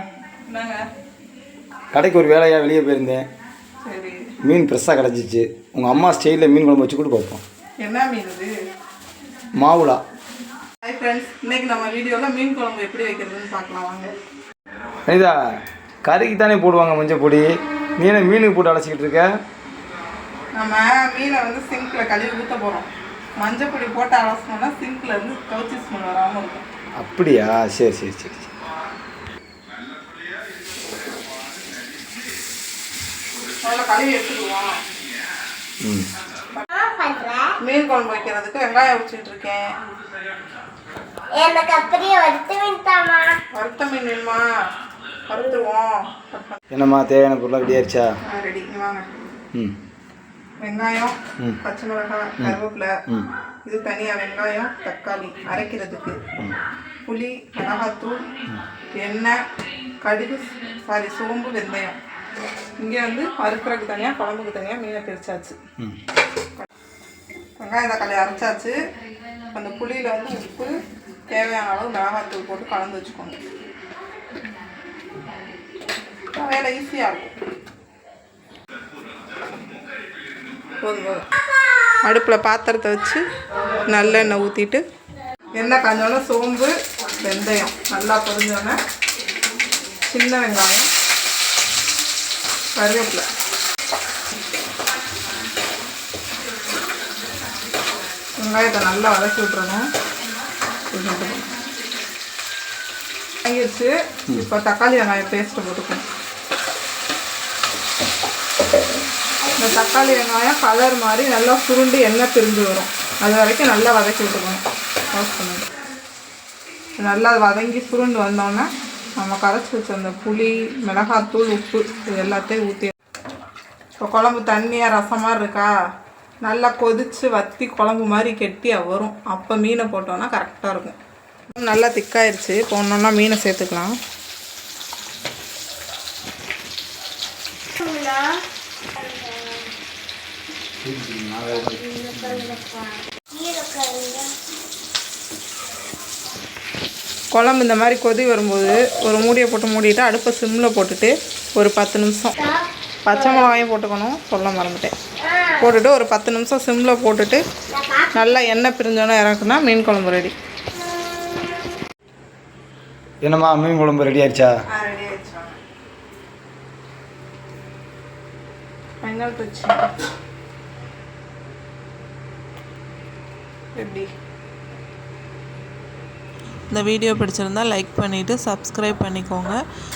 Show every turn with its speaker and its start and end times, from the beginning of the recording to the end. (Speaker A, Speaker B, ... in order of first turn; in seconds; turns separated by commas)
Speaker A: 0.5-0.8, Speaker B: 1.9-3.2, Speaker A: 3.9-4.3, Speaker B: 4.4-7.4, Speaker A: 7.8-8.5, Speaker B: 9.6-10.0, Speaker A: 10.8-14.1, Speaker B: 15.1-15.3, Speaker B: 16.0-17.5, Speaker B: 18.0-19.3, Speaker A: 20.6-26.7, Speaker B: 27.0-28.5, Speaker A: 33.6-34.7, Speaker C: 36.7-37.6, Speaker A: 37.6-39.7, Speaker C: 41.3-43.4, Speaker A: 43.5-44.4, Speaker A: 45.3-46.6, Speaker B: 46.7-48.1, Speaker A: 48.3-49.0, Speaker A: 50.6-52.9, Speaker B: 52.4-53.3, Speaker A: 53.6-56.2, Speaker A: 57.1-58.2, Speaker A: 58.9-59.4, Speaker A: 60.0-62.0, Speaker A: 62.8-65.6, Speaker A: 67.6-68.8, Speaker A: 69.5-70.7, Speaker A: 71.3-73.4, Speaker A: 76.3-77.3, Speaker A: 80.8-81.2, Speaker A: 82.0-83.2, Speaker A: 83.9-84.8, Speaker A: 85.5-88.8, Speaker A: 90.0-90.9, Speaker A: 92.8-93.2, Speaker A: 98.4-99.8, Speaker A: 100.9-101.5, Speaker A: 103.5-106.0, Speaker C: 109.4-110.2, Speaker A: 109.6-115.7, Speaker A: 117.0-122.9, Speaker A: 124.0-125.7, Speaker A: 126.4-130.9, Speaker A: 131.5-133.9, Speaker C: 137.8-138.4, Speaker C: 139.0-139.7, Speaker B: 140.8-142.5, Speaker C: 141.8-144.3, Speaker A: 147.3-152.3, Speaker C: 152.3-153.6, Speaker A: 153.0-154.9, Speaker C: 155.2-155.8, Speaker A: 155.6-157.4, Speaker C: 157.7-158.4, Speaker A: 158.1-160.3, Speaker B: 163.2-164.5, Speaker A: 164.7-165.6, Speaker A: 169.0-169.8, Speaker A: 173.8-174.1, Speaker D: 176.7-179.6